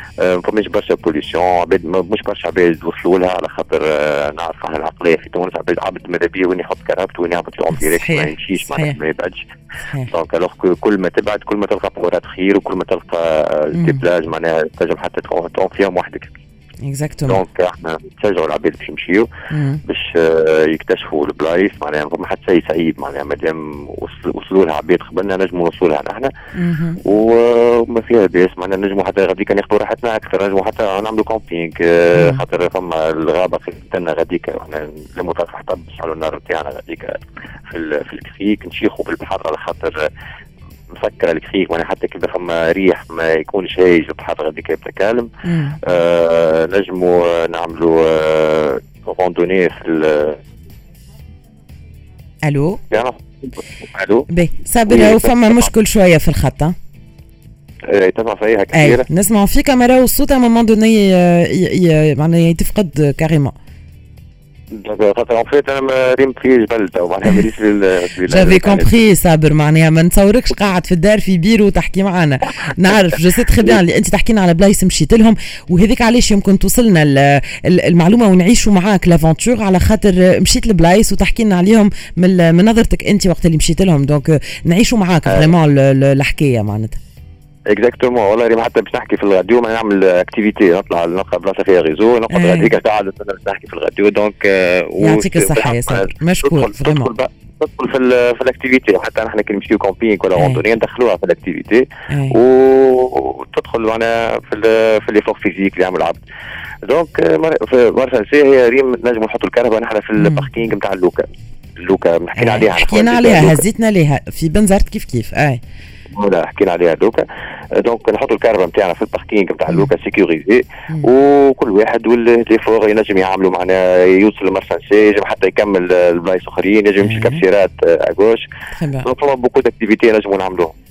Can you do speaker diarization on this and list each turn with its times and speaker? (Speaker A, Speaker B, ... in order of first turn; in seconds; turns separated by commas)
Speaker A: 0.2-9.4, Speaker B: 7.7-9.0, Speaker A: 10.1-16.4, Speaker B: 13.7-14.0, Speaker B: 16.8-17.4, Speaker A: 17.2-19.3, Speaker B: 19.5-19.8, Speaker A: 19.8-26.3, Speaker B: 26.5-27.0, Speaker A: 27.0-40.0, Speaker B: 32.1-32.4, Speaker A: 40.9-45.3, Speaker B: 45.4-45.8, Speaker A: 45.8-50.4, Speaker B: 52.5-52.8, Speaker A: 52.9-54.3, Speaker B: 54.3-56.7, Speaker A: 54.9-55.6, Speaker A: 57.9-59.0, Speaker B: 58.7-63.5, Speaker A: 64.7-68.9, Speaker B: 68.2-87.0, Speaker A: 85.3-85.5, Speaker A: 87.7-106.2, Speaker B: 92.3-92.8, Speaker B: 95.0-97.1, Speaker B: 100.3-100.6, Speaker B: 102.1-102.4, Speaker A: 106.8-111.2, Speaker B: 110.2-110.5, Speaker A: 111.8-113.6, Speaker B: 112.3-115.6, Speaker A: 116.1-128.4, Speaker B: 127.0-127.4, Speaker B: 128.7-129.1, Speaker A: 129.0-130.7